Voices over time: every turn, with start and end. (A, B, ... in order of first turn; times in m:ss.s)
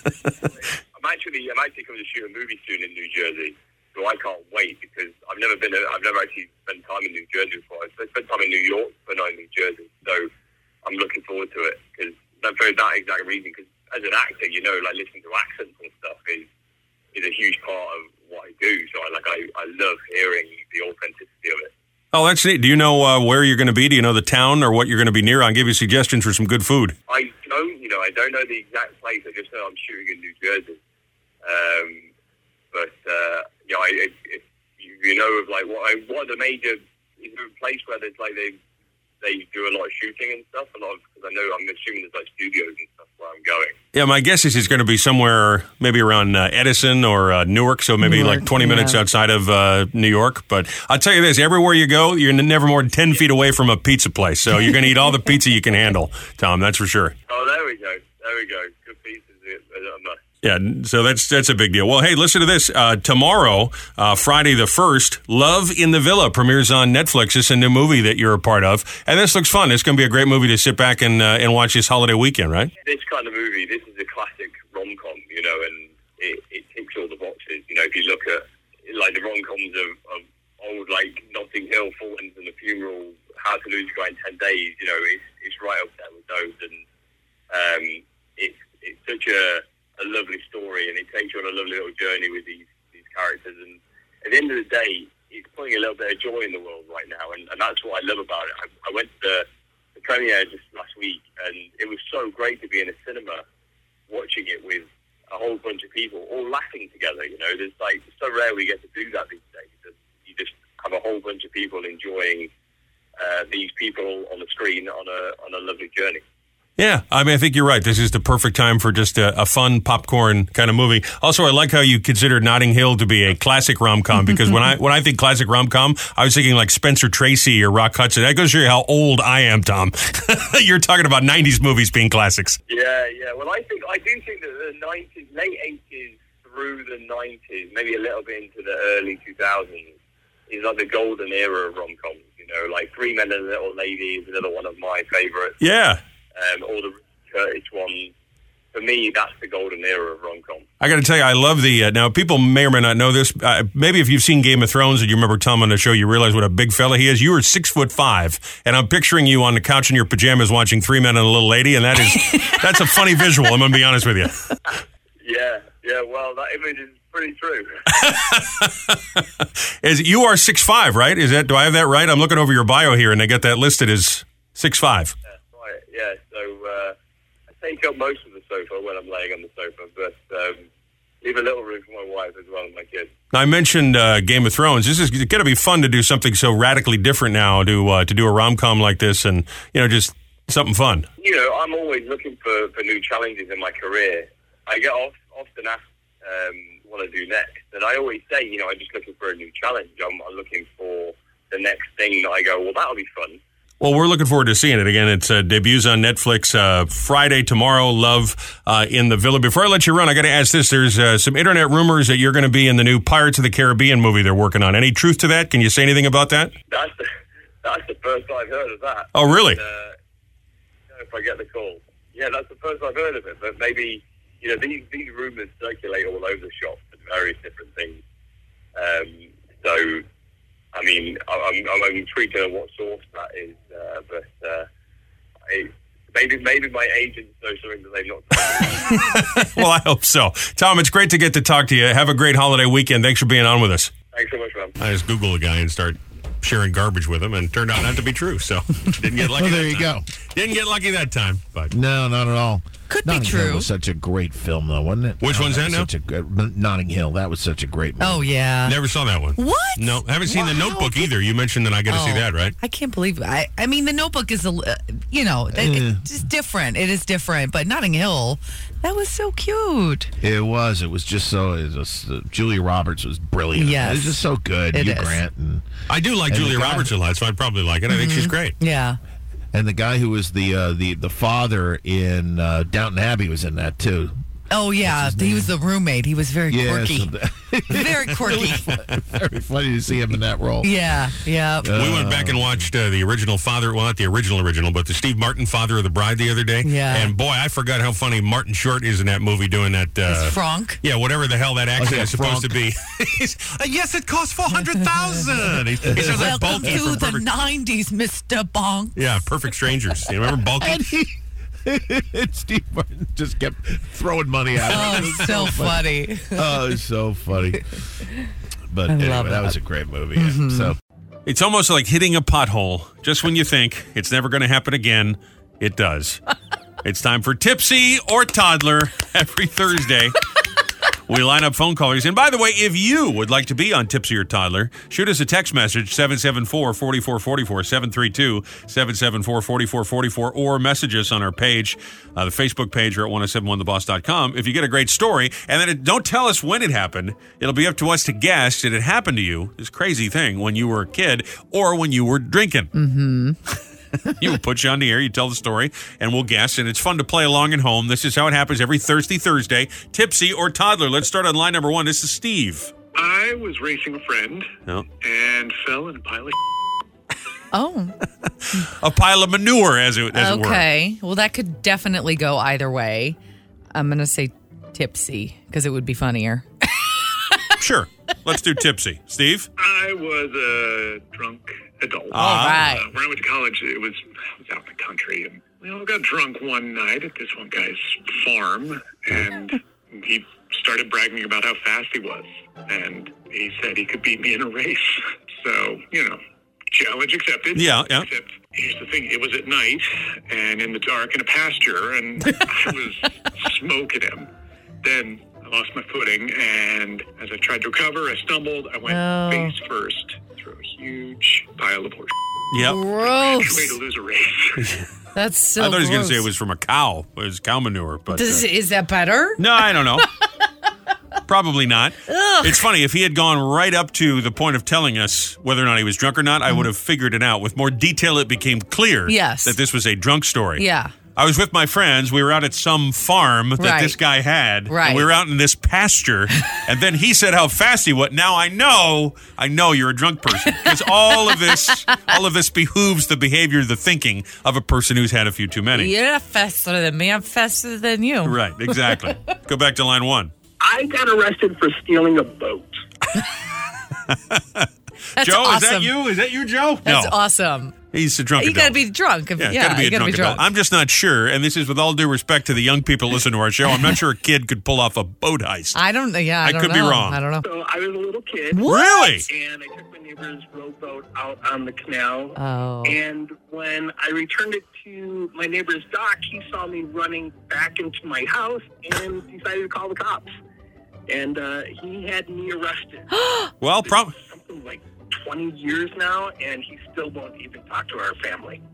0:01.0-0:10.3 A
0:10.8-0:16.5 A
0:17.1-0:21.7 A
0:22.1-0:27.0 B
0:27.1-0:30.8 A
0:31.4-0:32.1 A
0:32.7-0:38.6 A
0:39.2-0:43.8 A
0:43.9-0:57.2 B
0:48.0-0:49.0 C
0:57.3-1:00.2 A
1:00.4-1:12.7 B
1:12.8-1:26.8 A
1:27.5-1:39.4 A
1:40.0-1:43.4 A
1:44.1-1:52.5 A
1:53.2-1:56.2 A
1:56.8-2:12.6 B
2:12.7-2:19.9 A
2:20.5-2:25.6 A
2:25.6-2:26.0 B
2:26.4-2:28.1 A
2:28.7-2:30.6 A
2:30.8-2:44.6 B
2:42.1-2:42.6 C
2:45.2-2:47.7 A
2:47.9-2:49.2 B
2:49.8-2:55.2 B
2:55.5-2:57.0 A
2:57.6-3:00.6 A
3:01.2-3:03.1 A
3:03.3-3:11.1 B
3:11.2-3:23.4 A
3:23.8-3:36.5 B
3:36.7-3:37.0 A
3:37.6-3:40.0 A
3:39.1-3:39.6 B
3:40.9-3:48.0 A
3:48.8-3:50.0 A
3:50.7-3:54.7 A
3:55.5-3:59.2 A
3:59.0-4:03.9 B
4:04.1-4:04.8 A
4:04.8-4:11.7 B
4:09.2-4:10.0 D
4:11.7-4:18.3 D
4:12.9-4:13.7 C
4:15.2-4:15.9 B
4:18.0-4:18.8 C
4:18.7-4:22.5 B
4:19.4-4:21.0 C
4:21.9-4:30.1 C
4:25.5-4:26.0 D
4:30.2-4:35.6 D
4:33.6-4:35.2 C
4:35.9-4:38.5 B
4:36.3-4:36.9 D
4:37.9-4:39.0 C
4:39.5-4:44.2 D
4:44.5-4:47.1 C
4:44.8-4:45.5 D
4:46.5-4:50.8 D
4:47.7-4:48.8 C
4:50.6-4:51.8 C
4:51.6-4:52.7 D
4:51.8-5:07.2 B
4:56.6-4:57.1 C
5:00.1-5:00.8 C
5:01.8-5:02.6 D
5:05.9-5:06.7 D
5:05.9-5:09.3 C
5:09.0-5:10.8 B
5:10.6-5:11.1 D
5:11.6-5:17.7 D
5:14.7-5:16.5 C
5:18.7-5:20.8 D
5:18.9-5:19.6 C
5:20.2-5:20.7 C
5:21.3-5:26.2 B
5:26.8-5:30.2 B
5:31.1-5:52.7 B
5:52.7-5:53.4 C
5:54.2-6:02.7 B
6:03.0-6:04.5 E
6:05.0-6:06.4 E
6:07.5-6:08.0 C
6:08.6-6:10.6 B
6:10.1-6:13.2 C
6:13.7-6:17.4 C
6:17.6-6:19.5 B
6:19.6-6:36.2 E
6:22.1-6:22.7 B
6:22.2-6:22.9 C
6:36.7-6:44.3 E
6:37.6-6:38.1 B
6:44.8-6:52.1 E
6:48.9-6:49.5 C
6:52.5-6:52.8 B
6:52.6-6:53.8 C
6:53.0-6:54.7 E
6:54.6-6:54.8 B
6:55.2-6:56.3 C
6:55.6-6:58.4 B
6:58.1-7:00.1 C
6:59.4-7:00.1 B
7:01.3-7:10.6 B
7:02.1-7:02.6 C
7:09.1-7:09.6 C
7:10.6-7:10.9 C
7:11.2-7:25.9 B
7:13.6-7:14.0 C
7:14.7-7:15.1 C
7:20.6-7:22.0 C
7:25.7-7:29.1 C
7:28.2-7:30.3 B
7:30.6-7:32.8 F
7:34.1-7:37.1 B
7:35.2-7:35.9 C
7:36.8-7:37.7 C
7:37.9-7:38.8 B
7:38.4-7:40.4 C
7:39.4-7:45.8 B
7:45.8-7:47.4 C
7:46.4-7:47.2 B
7:47.4-7:48.6 F
7:48.5-7:49.2 C
7:48.7-7:49.3 B
7:49.3-8:00.3 F
7:52.4-7:53.0 C
8:01.1-8:03.1 F
8:03.1-8:03.5 C
8:03.6-8:04.1 B
8:03.8-8:08.6 F